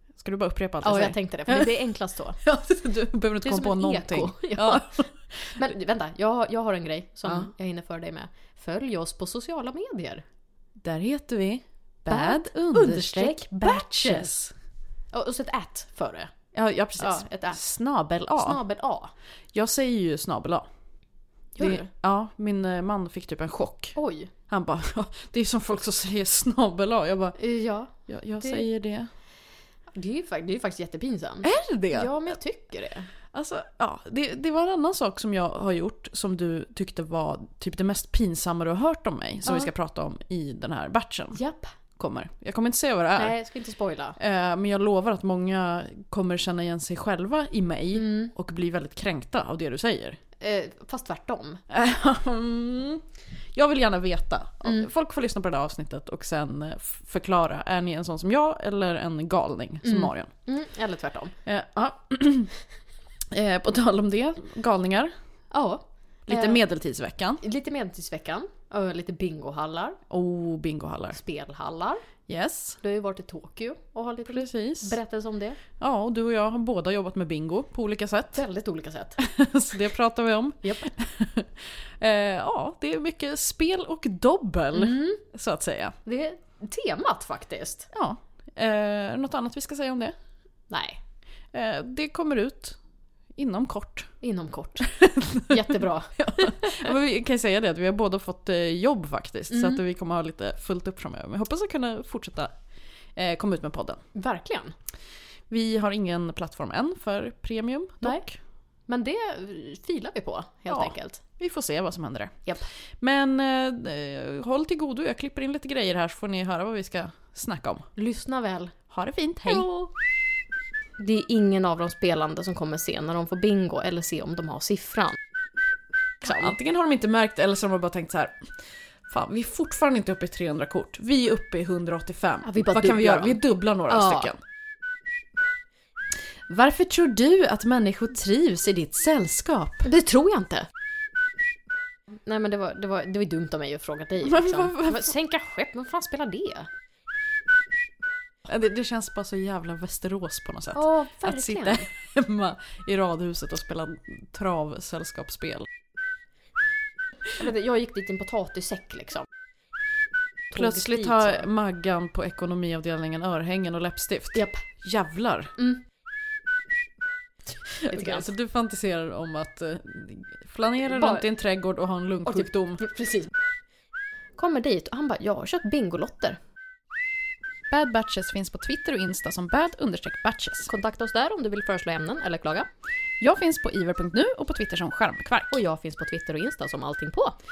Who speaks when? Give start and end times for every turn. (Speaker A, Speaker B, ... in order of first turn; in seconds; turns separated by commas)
Speaker A: 0.2-1.8, Speaker B: 0.8-2.4, Speaker A: 2.4-5.6, Speaker B: 3.4-10.2, Speaker A: 7.2-7.5, Speaker A: 10.8-14.5, Speaker B: 12.1-14.3, Speaker B: 15.1-16.3, Speaker A: 16.5-18.6, Speaker B: 17.0-17.6, Speaker B: 18.4-19.1, Speaker A: 19.5-20.6, Speaker B: 21.6-21.9, Speaker A: 21.6-23.9, Speaker B: 23.9-24.3, Speaker A: 24.5-27.4, Speaker B: 27.4-28.7, Speaker A: 28.1-29.1, Speaker B: 29.9-33.1, Speaker A: 31.4-32.4, Speaker A: 33.3-41.4, Speaker B: 39.4-39.7, Speaker B: 41.3-41.7, Speaker A: 42.0-43.4, Speaker B: 43.2-44.2, Speaker A: 44.2-50.2, Speaker B: 47.9-48.3, Speaker B: 50.4-51.6, Speaker A: 51.7-53.0, Speaker A: 53.5-60.3, Speaker B: 59.8-61.3, Speaker A: 61.5-62.5, Speaker A: 63.3-65.1, Speaker B: 65.5-66.7, Speaker A: 66.3-67.4, Speaker B: 67.4-70.0, Speaker A: 70.1-71.2, Speaker B: 71.1-72.0, Speaker A: 72.3-72.8, Speaker B: 72.8-75.6, Speaker A: 74.3-75.0, Speaker A: 75.8-78.4, Speaker B: 78.3-79.2, Speaker A: 79.2-86.0, Speaker B: 80.6-80.9, Speaker B: 84.7-85.2, Speaker B: 86.1-87.9, Speaker A: 87.9-90.1, Speaker B: 90.7-91.0, Speaker A: 91.5-92.8, Speaker A: 93.4-94.1, Speaker B: 94.2-96.9, Speaker A: 94.9-102.5, Speaker B: 99.5-99.8, Speaker A: 103.2-104.0, Speaker B: 104.2-104.7, Speaker A: 105.5-108.4, Speaker B: 108.9-111.2, Speaker A: 110.7-112.5, Speaker A: 113.0-117.9, Speaker B: 118.0-118.8, Speaker A: 118.9-119.7, Speaker B: 119.4-119.9, Speaker B: 121.0-125.2, Speaker B: 126.2-126.5, Speaker A: 126.2-128.5, Speaker A: 129.1-134.4, Speaker B: 132.4-134.3, Speaker A: 136.5-139.9, Speaker B: 139.8-140.7, Speaker B: 142.2-146.7, Speaker A: 144.2-145.1, Speaker A: 148.5-155.7, Speaker B: 150.7-151.9, Speaker B: 157.3-159.2, Speaker B: 160.5-161.5, Speaker A: 160.5-165.5, Speaker B: 164.3-164.7, Speaker B: 165.6-165.8, Speaker A: 167.7-172.8, Speaker B: 167.9-168.3, Speaker B: 170.9-171.2, Speaker B: 172.3-173.3, Speaker B: 174.4-176.4, Speaker A: 177.7-180.7, Speaker B: 180.7-182.7, Speaker A: 183.2-185.6, Speaker B: 185.5-187.3